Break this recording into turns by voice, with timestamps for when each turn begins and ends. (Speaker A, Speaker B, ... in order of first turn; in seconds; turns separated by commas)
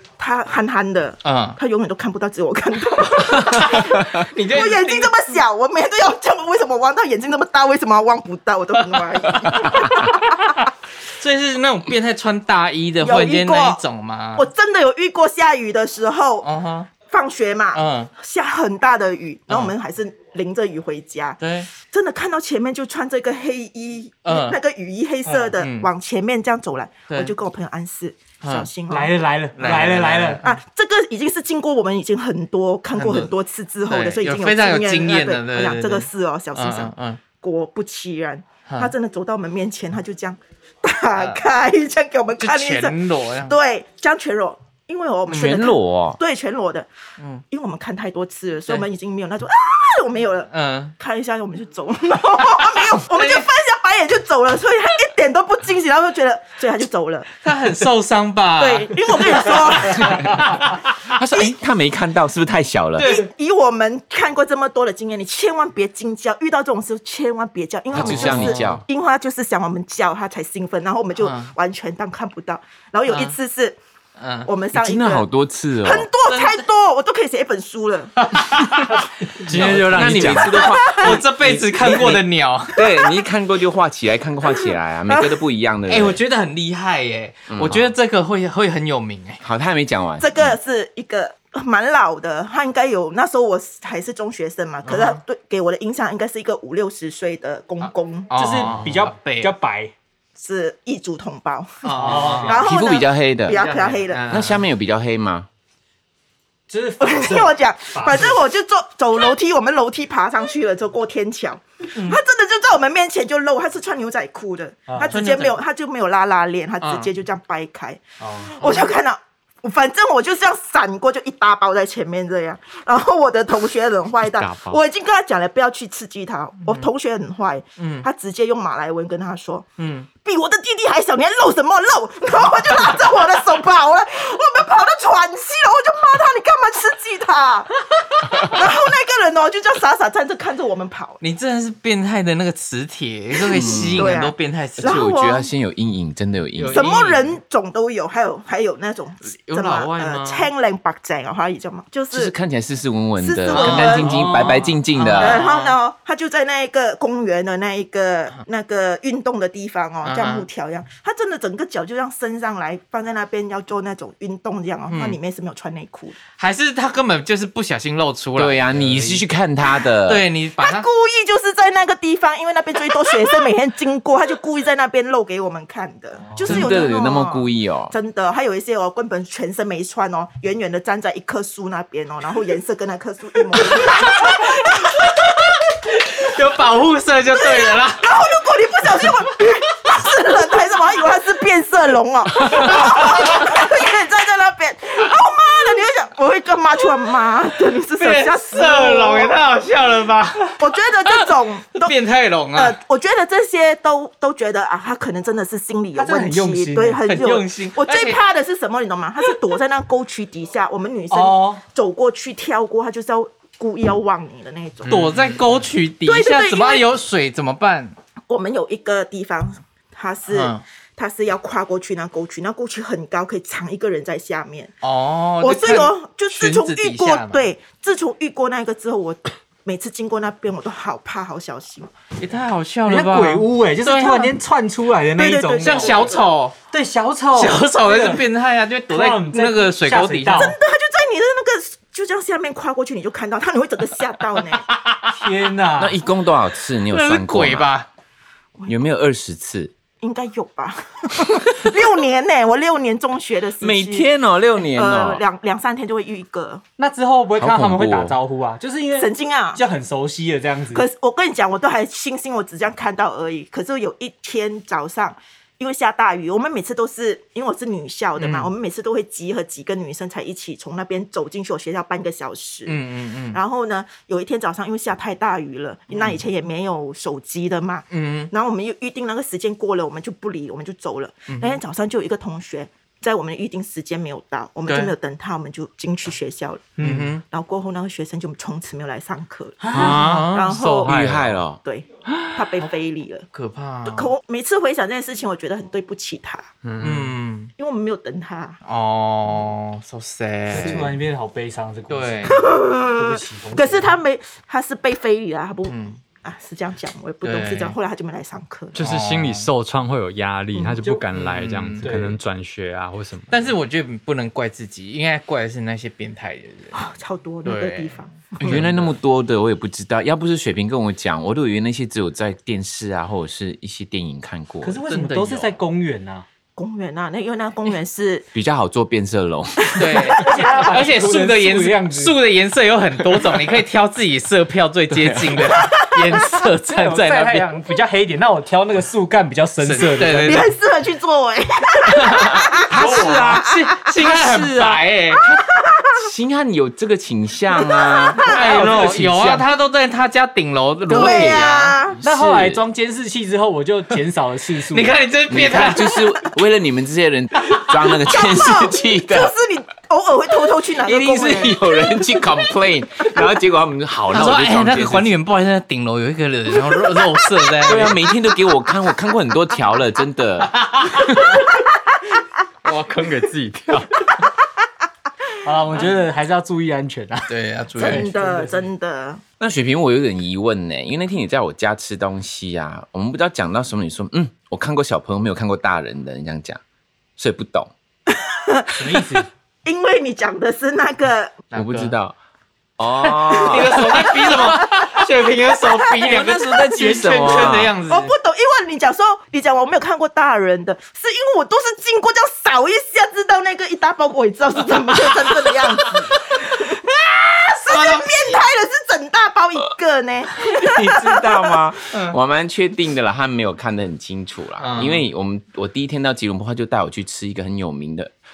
Speaker A: 0.2-10.6, Speaker B: 1.2-1.6, Speaker B: 3.4-5.2, Speaker B: 11.2-14.5, Speaker A: 13.0-13.8, Speaker A: 14.3-16.4, Speaker B: 16.4-16.9, Speaker A: 17.1-29.9, Speaker B: 17.7-18.1, Speaker B: 19.5-19.7, Speaker B: 21.4-21.7, Speaker B: 24.2-24.6, Speaker B: 25.6-25.9, Speaker B: 28.4-28.7, Speaker C: 28.9-30.4, Speaker B: 29.6-30.4, Speaker A: 30.4-46.9, Speaker B: 32.9-33.3, Speaker B: 33.9-37.2, Speaker B: 38.6-38.9, Speaker B: 41.1-41.4, Speaker B: 42.4-43.6, Speaker D: 45.3-46.2, Speaker B: 45.3-45.6, Speaker B: 47.2-47.4, Speaker A: 47.5-57.3, Speaker B: 50.5-51.0, Speaker B: 53.0-53.5, Speaker B: 57.4-60.4, Speaker A: 58.6-60.6, Speaker D: 60.0-60.5, Speaker D: 61.0-63.1, Speaker B: 63.0-63.3, Speaker A: 63.0-73.8, Speaker D: 67.9-68.8, Speaker B: 68.0-68.8, Speaker B: 71.2-71.5, Speaker B: 73.1-73.3, Speaker B: 74.2-74.5, Speaker A: 74.5-75.3, Speaker D: 74.7-76.1, Speaker A: 75.8-78.8, Speaker B: 76.2-76.6, Speaker B: 78.2-79.0, Speaker E: 79.4-80.6, Speaker C: 79.4-80.2, Speaker D: 79.9-86.2, Speaker B: 80.2-82.8, Speaker A: 80.5-81.2, Speaker A: 82.8-83.1, Speaker A: 84.7-85.3, Speaker B: 85.9-89.4, Speaker D: 87.5-87.9, Speaker D: 89.4-90.5, Speaker A: 90.2-98.3, Speaker B: 94.8-95.2, Speaker B: 97.8-99.5, Speaker C: 98.3-99.9, Speaker A: 100.4-104.3, Speaker B: 101.8-102.6, Speaker C: 101.9-102.7, Speaker D: 102.5-103.6, Speaker B: 103.5-104.6, Speaker D: 104.3-105.5, Speaker C: 106.7-108.4, Speaker A: 107.0-141.2, Speaker B: 115.0-115.6, Speaker B: 116.8-117.1, Speaker C: 118.2-118.6, Speaker B: 118.6-118.9, Speaker D: 124.2-124.8, Speaker B: 127.8-128.1, Speaker B: 129.8-130.1, Speaker B: 141.2-145.1, Speaker D: 143.5-144.1, Speaker A: 143.5-145.5, Speaker D: 144.8-146.8, Speaker B: 146.5-147.3, Speaker A: 146.7-152.3, Speaker B: 149.3-150.5, Speaker D: 152.1-155.4, Speaker A: 153.2-154.3, Speaker B: 153.5-155.8, Speaker A: 155.1-166.2, Speaker B: 160.0-160.5, Speaker B: 164.9-165.2, Speaker B: 166.4-169.2, Speaker D: 168.3-170.2, Speaker B: 170.0-170.8, Speaker A: 170.6-185.3, Speaker D: 176.4-177.9, Speaker B: 183.7-188.1, Speaker A: 187.3-199.4, Speaker B: 192.5-193.1, Speaker B: 197.9-202.8, Speaker A: 200.5-201.9, Speaker A: 202.6-215.2, Speaker C: 205.9-207.0, Speaker B: 207.0-208.2, Speaker C: 211.1-211.6, Speaker B: 214.8-217.9, Speaker A: 216.0-216.9, Speaker A: 218.3-224.7, Speaker B: 220.3-220.6, Speaker B: 224.8-227.4, Speaker A: 225.4-231.9, Speaker B: 232.2-234.3, Speaker C: 232.8-236.1, Speaker A: 235.1-236.1, Speaker B: 235.6-236.6, Speaker C: 236.7-238.2, Speaker B: 237.3-240.5, Speaker C: 238.9-240.6, Speaker A: 240.3-244.7, Speaker B: 244.7-245.1, Speaker C: 245.1-246.0, Speaker D: 245.8-247.7, Speaker B: 246.9-247.9, Speaker D: 248.7-249.7, Speaker A: 250.0-254.1, Speaker D: 253.6-255.2, Speaker A: 254.7-256.6, Speaker C: 256.8-260.8, Speaker D: 257.4-258.2, Speaker A: 258.9-259.6, Speaker A: 260.7-272.8, Speaker B: 268.2-268.5, Speaker B: 272.6-273.4, Speaker A: 273.3-291.1, Speaker B: 275.9-276.2, Speaker B: 277.9-278.3, Speaker B: 281.3-281.6, Speaker B: 284.7-284.9, Speaker C: 286.8-287.1, Speaker B: 286.8-287.2, Speaker C: 289.6-290.1, Speaker E: 289.7-291.4, Speaker B: 289.8-290.6, Speaker D: 290.8-291.6, Speaker A: 291.6-293.3, Speaker B: 293.3-294.1, Speaker A: 293.9-296.5, Speaker E: 296.6-297.1, Speaker B: 296.8-297.5, Speaker A: 297.6-298.6, Speaker B: 298.6-300.9, Speaker C: 300.5-303.9, Speaker B: 301.9-302.4, Speaker A: 302.3-308.8, Speaker B: 305.7-306.0, Speaker B: 307.2-307.7, Speaker E: 308.7-313.5, Speaker B: 308.8-309.5, Speaker A: 310.5-310.8, Speaker B: 311.1-311.9, Speaker C: 311.8-312.2, Speaker B: 313.3-316.8, Speaker A: 316.7-318.6, Speaker B: 317.4-318.9, Speaker D: 318.4-324.8, Speaker C: 324.6-326.2, Speaker B: 324.9-325.5, Speaker A: 326.6-328.3, Speaker D: 328.3-330.1, Speaker A: 329.6-330.3, Speaker B: 329.8-337.5, Speaker C: 330.1-332.2, Speaker D: 334.9-335.4, Speaker A: 335.6-336.1, Speaker C: 336.6-340.5, Speaker B: 339.6-340.5, Speaker A: 340.2-343.6, Speaker B: 342.0-345.2, Speaker D: 342.0-345.4, Speaker C: 342.8-343.2, Speaker A: 345.2-346.0, Speaker D: 345.9-349.4, Speaker A: 347.5-348.6, Speaker B: 348.2-351.8, Speaker A: 350.9-352.0, Speaker D: 351.0-351.4, Speaker C: 352.0-355.1, Speaker D: 352.0-352.6, Speaker B: 354.7-355.9, Speaker D: 355.3-359.3, Speaker A: 357.9-362.3, Speaker D: 360.8-365.1, Speaker B: 364.1-368.0, Speaker D: 367.6-370.6, Speaker B: 370.6-371.0, Speaker E: 372.6-374.1, Speaker C: 375.4-378.6, Speaker B: 377.3-378.1, Speaker A: 377.8-379.2, Speaker D: 379.4-386.6, Speaker D: 387.2-387.7, Speaker A: 388.1-391.4, Speaker C: 388.7-389.3, Speaker B: 391.5-391.9, Speaker D: 391.5-392.1, Speaker D: 392.8-394.1, Speaker B: 393.1-398.1, Speaker A: 393.5-394.1, Speaker D: 396.0-397.7, Speaker A: 397.9-411.6, Speaker B: 407.7-408.4, Speaker D: 410.4-418.1, Speaker B: 411.9-412.2, Speaker B: 414.6-415.0